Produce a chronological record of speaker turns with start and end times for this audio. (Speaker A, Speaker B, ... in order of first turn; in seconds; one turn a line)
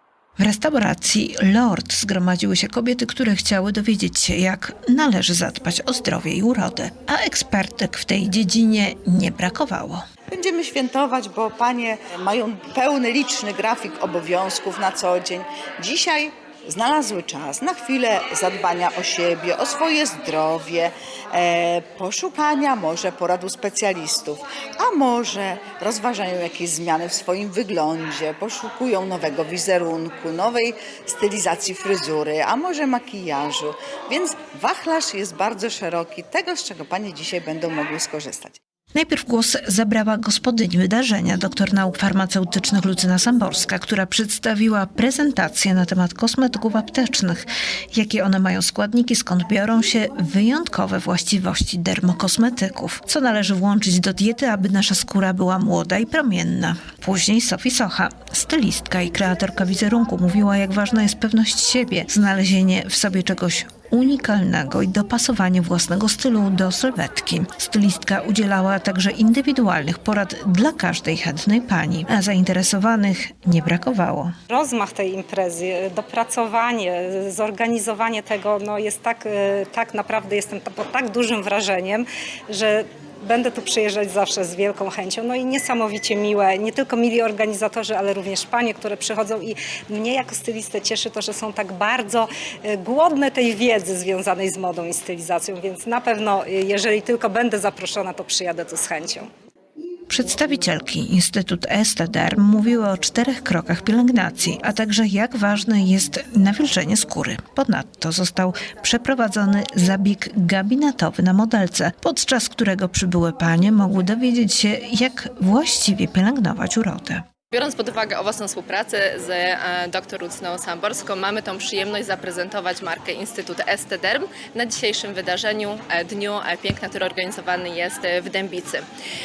Speaker A: 0.4-10.0
Speaker B: 10.3-38.6
Speaker A: 38.9-74.3
Speaker C: 74.5-99.3
Speaker A: 100.1-117.2
Speaker D: 117.5-128.8